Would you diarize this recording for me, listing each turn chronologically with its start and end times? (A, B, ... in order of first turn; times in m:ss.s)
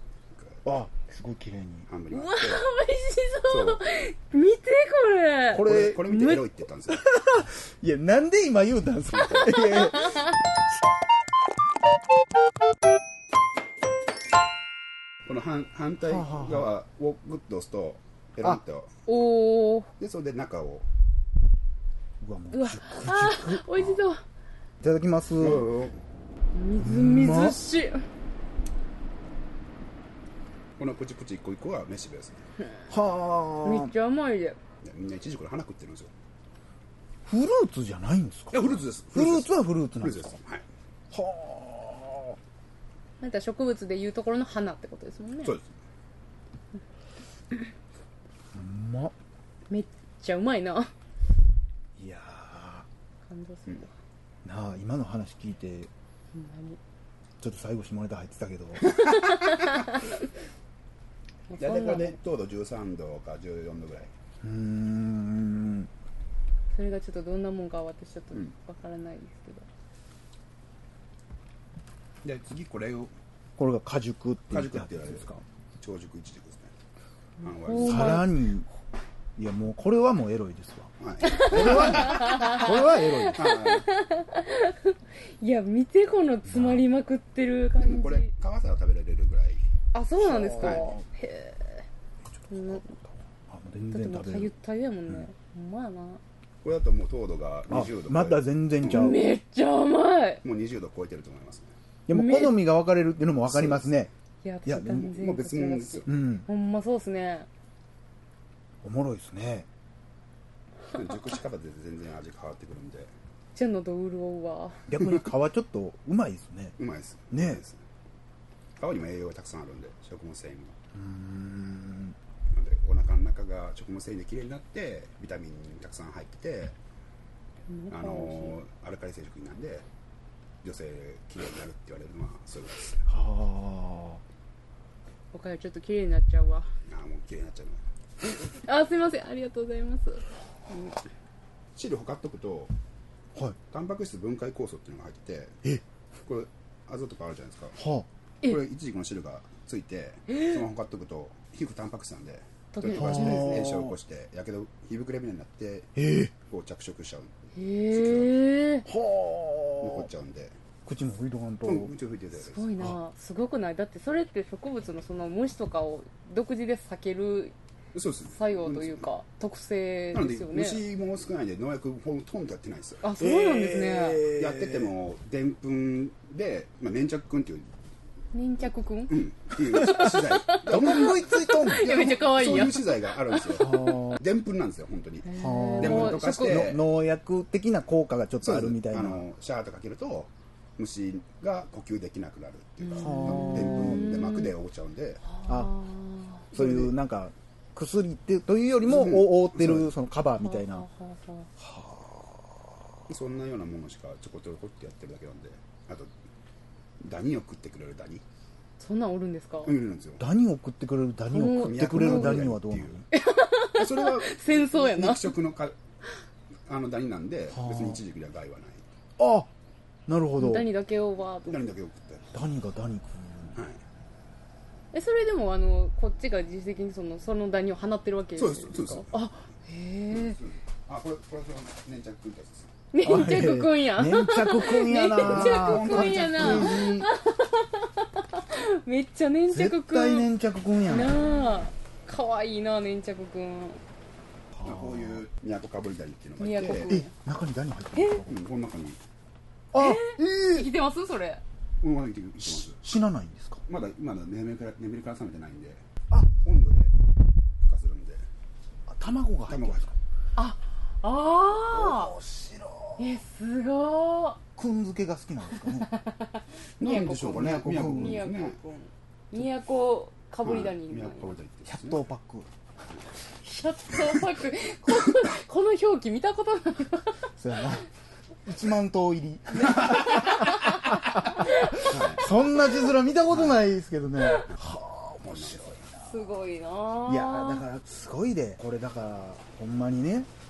0:00.3-0:00.6 A
0:00.6-0:01.9 B
0:01.9-0:02.7 A
0:02.1-0:06.4 C
0:03.5-0:03.8 A
0:05.5-0:06.0 B
0:05.6-0:07.1 A
0:06.9-0:10.4 B
0:09.5-0:10.3 C
0:15.2-0:18.9 A
0:16.0-0:16.7 B
0:19.1-0:19.9 C
0:20.0-0:20.9 A
0:22.2-0:24.1 B
0:22.5-0:24.2 C
0:24.8-0:25.7 B
0:25.4-0:26.0 A
0:26.5-0:28.0 C
0:26.8-0:27.6 B
0:30.8-0:32.5 A
0:32.9-0:33.9 B
0:33.6-0:34.6 C
0:34.8-0:36.1 A
0:37.3-0:40.4 B
0:38.5-0:40.6 A
0:41.1-0:42.4 B
0:43.2-0:45.6 C
0:48.5-0:49.1 B
0:49.7-0:50.9 C
0:52.0-0:52.9 B
0:53.3-0:53.9 C
0:54.4-0:55.9 B
0:56.3-0:56.8 C
0:57.4-0:59.0 B
0:58.8-0:59.7 A
0:59.2-1:00.0 C
1:01.5-1:02.2 C
1:01.6-1:04.1 A
1:04.4-1:05.9 B
1:06.7-1:09.7 C
1:12.2-1:13.1 A
1:13.6-1:15.4 B
1:14.5-1:16.7 A
1:17.4-1:18.3 A
1:17.4-1:18.4 C
1:17.8-1:18.7 B
1:19.4-1:23.6 B
1:21.0-1:22.5 A
1:21.2-1:28.3 C
1:23.3-1:23.9 A
1:26.5-1:26.9 B
1:27.8-1:29.6 A
1:29.9-1:31.9 C
1:30.2-1:31.0 B
1:30.6-1:30.9 A
1:32.5-1:32.9 C
1:32.5-1:34.5 B
1:33.8-1:36.2 C
1:36.6-1:39.1 A
1:37.7-1:39.3 B
1:38.9-1:40.4 C
1:40.4-1:41.7 A
1:42.1-1:44.1 B
1:42.1-1:42.6 C
1:43.5-1:43.9 A
1:44.4-1:47.5 C
1:44.7-1:45.1 B
1:44.9-1:46.1 A
1:46.1-1:46.5 B
1:48.8-1:49.7 B
1:50.9-1:53.1 A
1:53.6-1:54.9 C
1:54.9-1:56.8 B
1:56.8-1:57.8 A
1:57.3-1:57.6 B
1:58.8-2:00.8 A
2:00.9-2:02.2 B
2:02.5-2:06.8 A
2:07.7-2:08.6 C
2:07.9-2:09.9 A
2:10.6-2:13.1 A
2:13.1-2:14.2 B
2:15.3-2:16.7 C
2:16.8-2:17.8 A
2:18.2-2:21.0 C
2:21.8-2:22.7 A
2:23.7-2:25.6 A
2:26.2-2:27.8 A
2:27.8-2:28.1 B
2:28.4-2:37.3 A
2:30.3-2:30.6 C
2:32.7-2:33.6 C
2:32.9-2:33.9 B
2:36.0-2:36.3 B
2:37.6-2:38.9 C
2:37.9-2:38.3 A
2:38.9-2:40.1 B
2:39.8-2:40.6 A
2:40.9-2:42.0 B
2:41.6-2:42.7 A
2:42.4-2:47.5 C
2:47.9-2:49.1 A
2:48.2-2:50.8 C
2:50.1-2:53.0 A
2:53.0-2:54.3 C
2:53.2-2:55.0 B
2:54.3-2:57.7 A
2:58.3-2:59.2 C
2:59.1-3:06.8 A
2:59.7-3:02.2 B
2:59.7-3:03.8 C
3:03.6-3:04.2 B
3:05.2-3:06.7 C
3:05.3-3:09.3 B
3:08.4-3:15.2 A
3:12.8-3:14.5 C
3:13.0-3:14.2 B
3:15.3-3:16.4 C
3:15.5-3:15.8 B
3:16.5-3:16.9 A
3:16.5-3:20.9 B
3:18.8-3:19.9 A
3:20.4-3:21.5 C
3:21.6-3:22.8 B
3:23.1-3:26.1 A
3:27.0-3:28.2 A
3:28.8-3:29.7 C
3:29.6-3:30.2 A
3:30.2-3:33.0 B
3:31.3-3:32.5 C
3:31.6-3:33.0 A
3:33.1-3:35.4 C
3:33.7-3:35.8 A
3:36.7-3:38.9 A
3:37.5-3:38.0 B
3:39.2-3:39.5 B
3:40.1-3:40.7 B
3:40.4-3:41.7 C
3:41.4-3:42.3 A
3:42.3-3:43.6 B
3:43.6-3:43.8 A
3:44.9-3:50.4 C
3:48.4-3:49.1 A
3:50.1-3:52.7 A
3:52.9-4:00.3 C
3:53.0-3:57.1 B
3:55.2-3:56.9 A
3:59.5-4:01.3 B
4:00.8-4:03.8 C
4:04.5-4:05.2 B
4:04.6-4:06.9 A
4:06.4-4:07.1 C
4:06.9-4:08.4 B
4:07.9-4:08.3 C
4:08.3-4:09.0 A
4:09.7-4:10.7 B
4:09.8-4:11.4 C
4:11.8-4:12.8 A
4:12.4-4:13.6 B
4:13.7-4:16.9 A
4:17.6-4:18.2 A
4:18.9-4:19.9 B
4:19.5-4:19.9 A
4:20.4-4:22.2 C
4:21.7-4:23.2 B
4:23.0-4:24.4 C
4:24.6-4:25.9 B
4:25.6-4:31.4 C
4:26.8-4:28.6 A
4:27.0-4:28.2 B
4:30.4-4:32.0 A
4:31.7-4:32.5 B
4:33.4-4:37.3 C
4:37.4-4:37.9 B
4:38.5-4:46.4 B
4:39.5-4:41.8 C
4:39.7-4:40.2 A
4:41.7-4:42.3 A
4:43.3-4:43.7 A
4:45.2-4:45.8 A
4:46.1-4:47.6 C
4:47.0-4:50.3 B